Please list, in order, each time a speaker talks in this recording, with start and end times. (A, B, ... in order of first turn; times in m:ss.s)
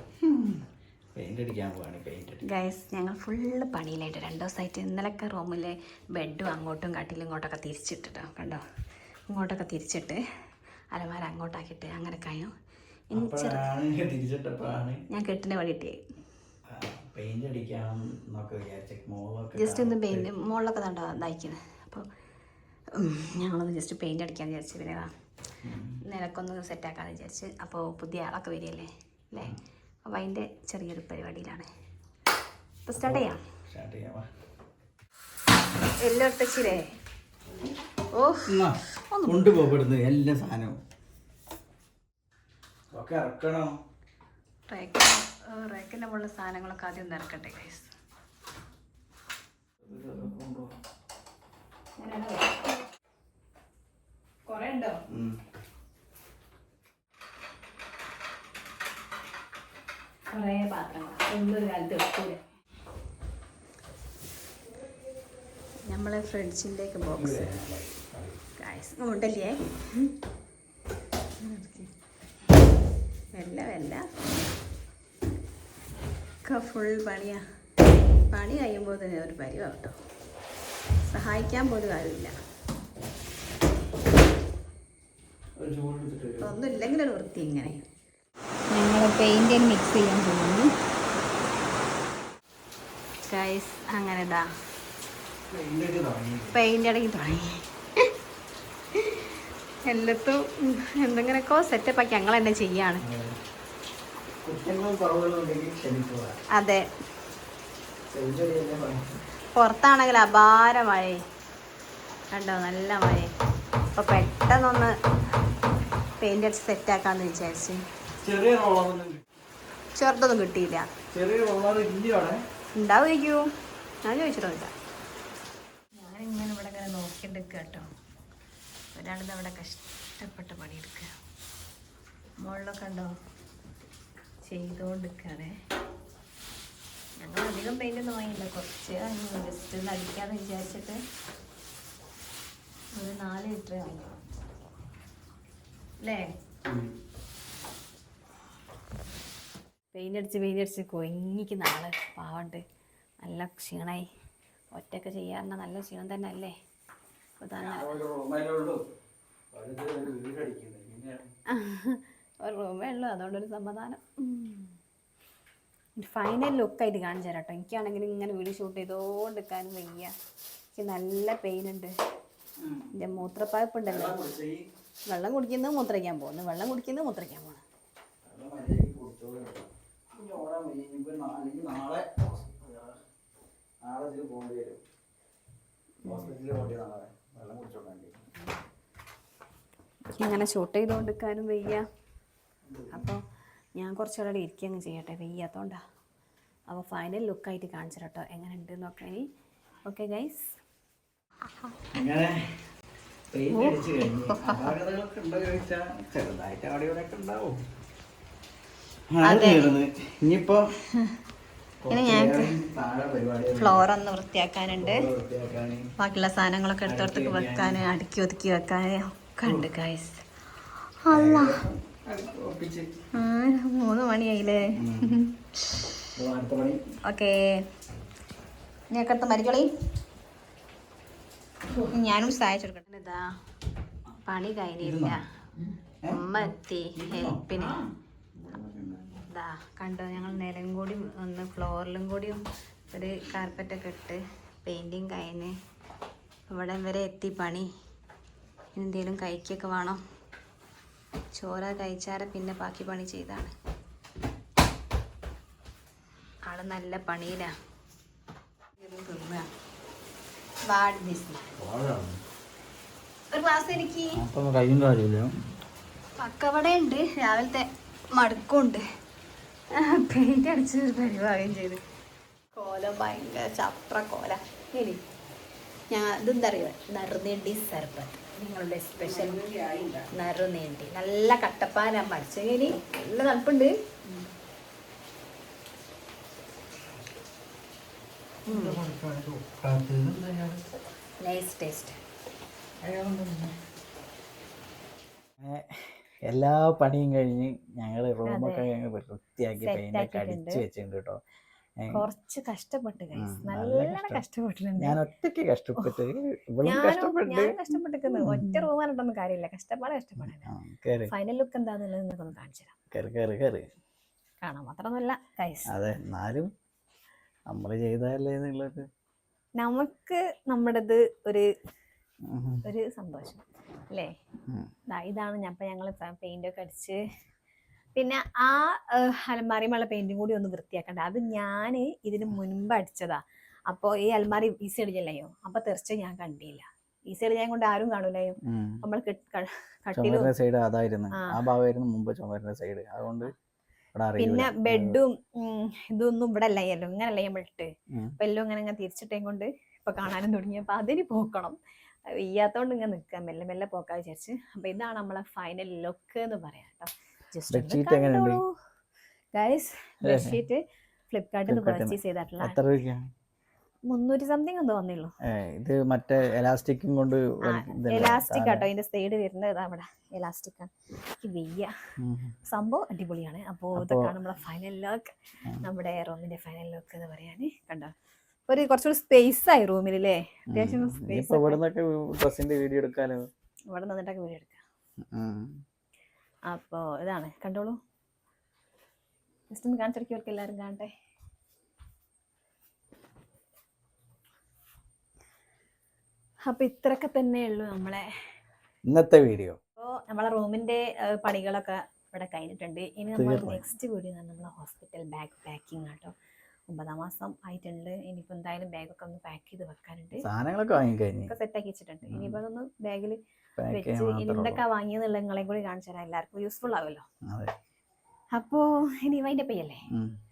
0:00.2-0:00.6 A
0:01.2-0:02.4 A
0:02.4-0:08.6 B
0:09.3-0:10.2 B
0:10.9-0:12.5 B
0:13.1-0:13.7 B
0:13.1-0:15.0 A
0:15.1-0:16.0 B
0:16.7-0:20.3 A
0:19.5-0:22.0 B
0:23.0-0:25.1 B
0:25.6-0:26.0 A
0:26.0-0:31.7 B
0:32.9-0:33.4 B
0:33.0-0:34.3 A
0:36.0-0:36.9 B
0:38.1-0:38.6 B
0:38.5-0:40.8 A
0:39.1-0:39.5 B
0:42.9-0:43.7 A
0:44.7-0:47.9 B
0:49.8-0:50.7 A
0:52.0-0:52.6 B
0:54.5-0:55.0 B
0:55.1-0:55.4 A
1:00.3-1:02.4 B
1:05.8-1:07.5 B
1:07.1-1:08.4 A
1:08.6-1:10.1 B
1:11.4-1:11.9 B
1:13.4-1:14.0 B
1:16.4-1:17.4 B
1:18.2-1:19.9 B
1:21.1-1:22.3 B
1:25.6-1:26.6 A
1:26.4-1:27.8 B
1:28.7-1:30.7 B
1:33.3-1:34.5 B
1:35.5-1:36.5 A
1:36.5-1:37.6 B
1:38.9-1:39.2 B
1:39.9-1:43.0 B
1:43.0-1:43.4 A
1:44.4-1:46.4 A
1:46.5-1:46.9 B
1:48.1-1:49.1 A
1:49.5-1:51.2 B
1:52.3-1:53.3 B
1:53.9-1:54.9 B
1:56.2-1:57.8 B
1:58.2-1:59.2 A
1:59.9-2:00.9 B
2:01.1-2:02.4 A
2:02.8-2:03.4 B
2:04.0-2:04.7 B
2:06.0-2:07.8 B
2:08.9-2:11.1 B
2:12.4-2:13.1 B
2:14.5-2:15.5 B
2:17.2-2:21.0 B
2:22.9-2:24.1 B
2:26.0-2:26.3 B
2:29.9-2:32.6 B
2:33.2-2:34.0 B
2:34.7-2:36.5 B
2:37.4-2:37.9 B
2:37.6-2:38.8 A
2:39.5-2:41.3 A
2:41.5-2:44.7 B
2:46.0-2:50.1 B
2:50.8-2:51.9 B
2:52.6-2:52.9 A
2:52.9-2:54.2 B
2:53.8-2:54.6 A
2:55.1-2:57.6 B
2:58.2-3:03.0 A
3:03.8-3:04.8 A
3:06.0-3:08.2 A
3:06.0-3:06.3 B
3:10.1-3:11.8 B
3:12.6-3:13.1 A
3:12.9-3:13.2 B
3:13.8-3:15.8 B
3:16.7-3:19.2 B
3:19.8-3:20.5 B
3:21.9-3:22.4 A
3:23.3-3:27.6 A
3:29.1-3:30.7 A
3:29.3-3:29.6 C
3:31.8-3:33.9 A
3:31.9-3:32.5 C
3:33.8-3:34.8 B
3:34.7-3:35.9 A
3:34.8-3:35.0 C
3:36.0-3:40.2 B
3:36.8-3:37.9 A
3:37.4-3:37.8 C
3:41.1-3:42.9 A
3:43.2-3:44.6 B
3:44.8-3:45.2 A
3:46.2-3:46.8 A
3:47.1-3:47.4 B
3:48.9-3:49.7 B
3:51.9-3:53.2 B
3:54.2-3:55.2 B
3:54.8-3:55.2 A
3:56.0-3:59.2 A
3:56.1-3:57.8 B
3:59.3-4:05.5 B
4:06.5-4:07.7 B
4:08.8-4:10.0 B
4:11.3-4:13.5 B
4:16.4-4:17.5 B
4:18.8-4:19.5 B
4:20.7-4:21.6 B
4:21.6-4:22.2 A
4:23.3-4:24.2 B
4:24.1-4:25.3 A
4:26.2-4:28.8 B
4:29.7-4:31.8 B
4:32.5-4:35.0 B
4:35.9-4:39.5 B
4:39.0-4:40.1 A
4:40.1-4:43.7 B
4:48.5-4:48.8 B
4:48.5-4:50.6 A
4:51.2-4:52.0 B
4:52.8-4:53.5 A
4:55.4-5:01.2 A
4:58.3-4:58.6 B
4:59.6-5:00.5 B
5:02.1-5:04.9 C
5:03.1-5:04.2 A
5:04.8-5:08.7 A
5:06.7-5:10.4 C
5:10.2-5:11.1 A
5:11.1-5:12.7 C
5:12.9-5:13.6 A
5:14.4-5:15.6 C
5:15.7-5:16.5 A
5:17.5-5:18.8 A
5:19.6-5:21.4 C
5:22.2-5:22.6 A
5:22.7-5:23.4 C
5:24.9-5:27.0 C
5:28.0-5:33.2 C
5:33.7-5:36.6 C
5:36.0-5:36.6 B
5:37.1-5:38.0 B
5:37.9-5:38.4 C
5:38.4-5:38.8 A
5:38.9-5:40.3 C
5:39.9-5:43.3 A
5:43.9-5:45.0 A
5:44.2-5:45.1 C
5:46.0-5:46.3 B
5:46.3-5:47.6 C
5:48.2-5:51.5 C
5:52.2-5:56.9 C
5:57.3-5:57.9 B
5:57.5-5:58.4 A
5:57.7-5:58.5 C
5:59.3-6:00.6 C
6:00.0-6:00.4 A
6:01.1-6:02.5 C
6:01.5-6:03.0 A
6:03.9-6:05.0 C
6:04.0-6:05.0 B
6:05.2-6:08.7 A
6:07.5-6:10.7 C
6:10.2-6:10.5 B
6:11.2-6:11.7 C
6:12.0-6:12.3 A
6:12.5-6:15.0 C
6:13.7-6:14.2 A
6:15.6-6:17.9 C
6:18.5-6:21.5 C
6:19.2-6:19.9 B
6:20.5-6:23.2 A
6:23.7-6:24.5 B
6:25.1-6:25.5 A
6:26.5-6:27.7 C
6:29.5-6:30.9 C
6:36.6-6:38.0 C
6:38.9-6:39.6 A
6:39.8-6:46.1 C
6:43.1-6:43.6 A
6:46.7-6:50.2 C
6:50.2-6:51.3 A
6:51.3-6:53.1 C
6:52.1-6:52.4 A
6:53.6-6:54.6 A
6:53.7-6:57.0 C
6:56.0-6:56.8 B
6:58.4-6:59.8 C